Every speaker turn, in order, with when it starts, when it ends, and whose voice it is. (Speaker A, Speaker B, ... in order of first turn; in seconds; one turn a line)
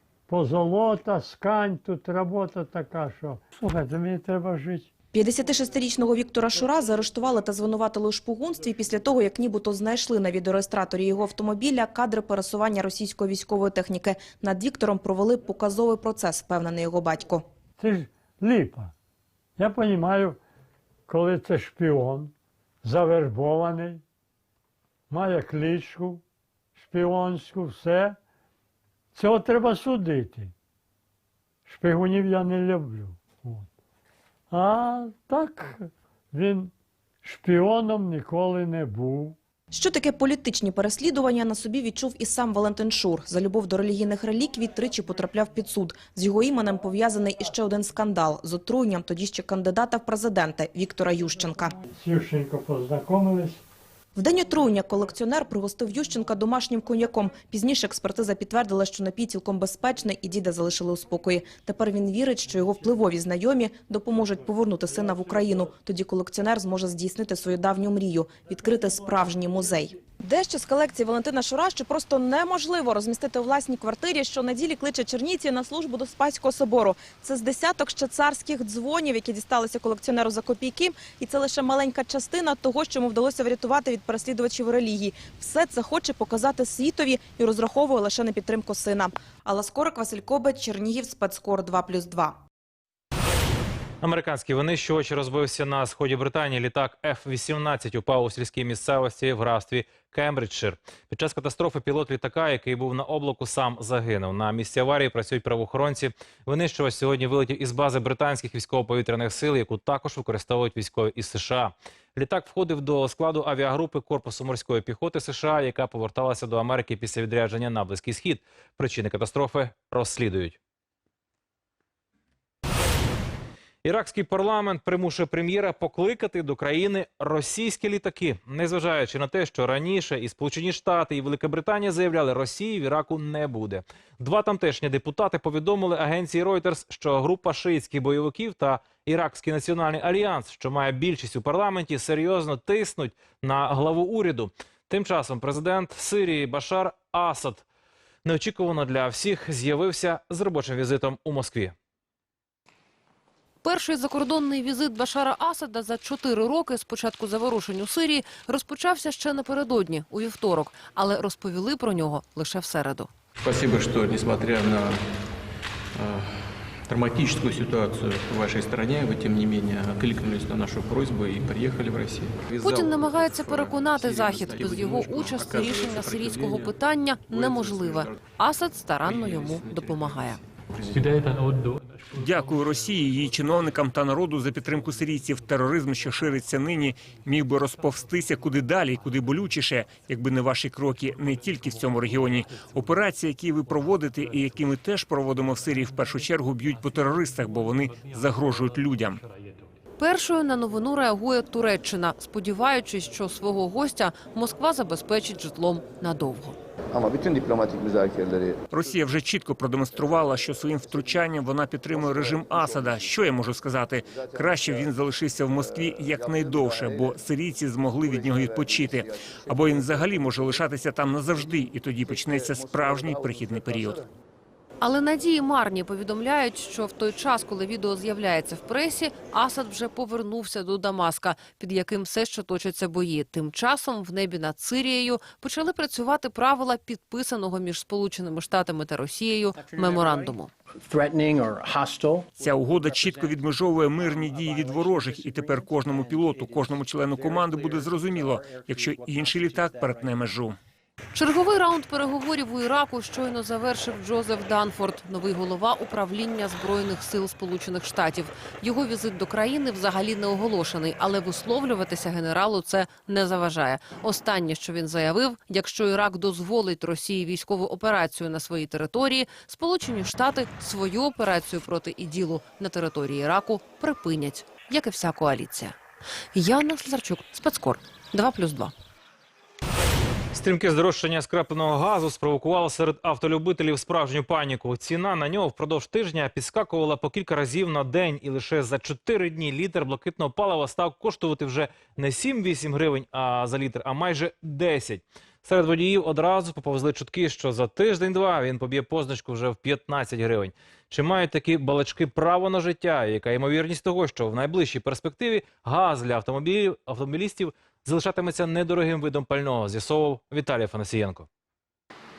Speaker A: 0.3-4.9
Speaker B: 5.1-17.4
Speaker A: 17.8-18.9
Speaker A: 19.6-20.4
Speaker A: 21.1-24.0
Speaker A: 25.1-26.2
Speaker A: 26.8-28.2
Speaker A: 29.1-30.5
Speaker A: 31.7-33.7
Speaker A: 34.5-36.7
Speaker A: 37.2-39.4
Speaker B: 39.7-51.7
Speaker A: 51.9-53.6
Speaker B: 54.1-92.4
Speaker C: 94.0-120.6
Speaker C: 123.8-147.6
Speaker C: 148.2-151.7
Speaker D: 153.6-163.1
Speaker E: 163.3-165.2
Speaker E: 165.9-178.4
Speaker D: 172.6-180.4
Speaker E: 179.0-181.5
Speaker F: 182.1-199.2
Speaker D: 200.0-206.6
Speaker G: 206.9-208.6
Speaker F: 208.7-224.0
Speaker G: 210.8-211.1
Speaker G: 211.9-213.2
Speaker G: 214.0-215.0
Speaker G: 215.5-217.2
Speaker G: 218.0-220.6
Speaker G: 221.4-224.1
Speaker D: 224.8-240.5
Speaker F: 242.3-250.6
Speaker D: 251.1-275.8
Speaker D: 276.3-278.7
Speaker C: 280.3-311.3